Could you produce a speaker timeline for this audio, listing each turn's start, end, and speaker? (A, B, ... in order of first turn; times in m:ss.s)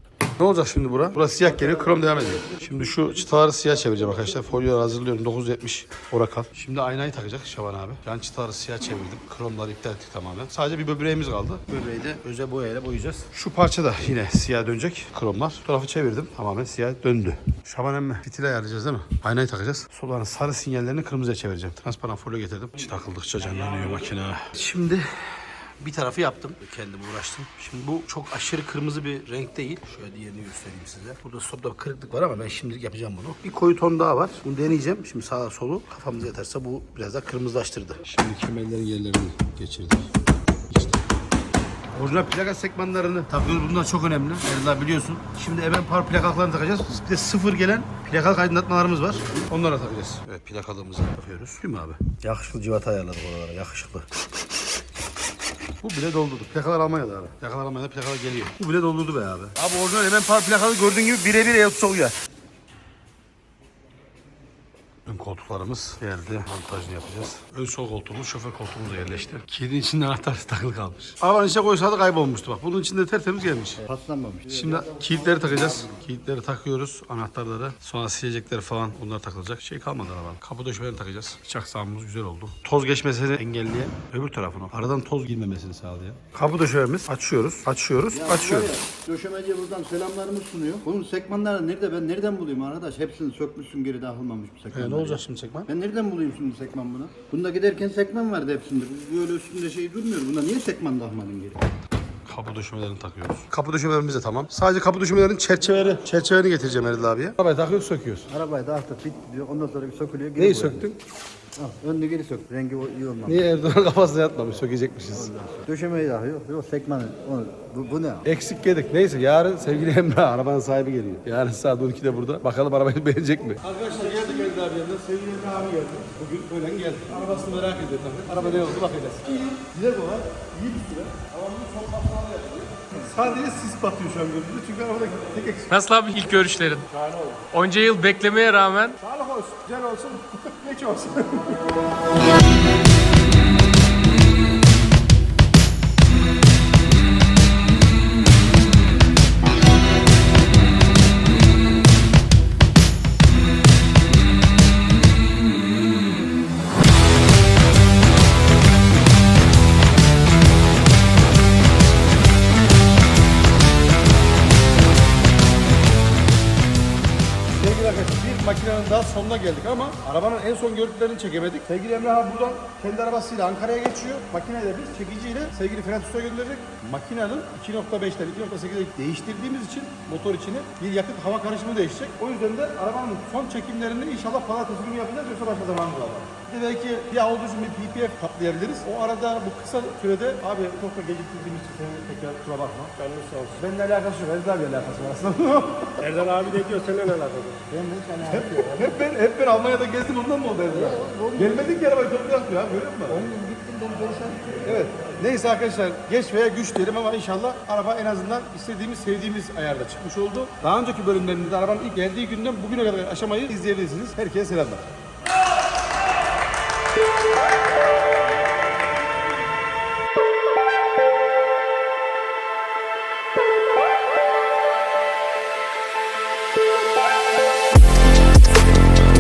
0:00.4-0:40.1 A
0:01.4-0:04.5 B
0:40.7-0:41.0 A
0:41.9-0:54.3 A
0:55.8-1:02.2 A
1:05.1-1:13.8 A
1:13.8-1:16.0 B
1:14.5-1:28.7 A
1:28.1-1:41.6 B
1:34.7-1:35.7 A
1:42.3-1:48.3 A
1:48.3-1:50.9 B
1:50.4-1:51.0 A
1:51.6-1:53.5 B
1:53.2-1:55.3 A
1:55.1-1:58.3 B
1:58.2-2:15.8 A
2:15.7-2:19.0 C
2:19.0-2:21.6 A
2:47.6-3:13.0 A
3:13.0-3:13.5 C
3:13.5-3:16.2 A
3:16.0-3:17.7 C
3:17.7-3:18.8 B
3:18.2-3:23.3 A
3:20.7-3:21.8 B
3:23.1-3:24.6 B
3:24.5-3:34.8 A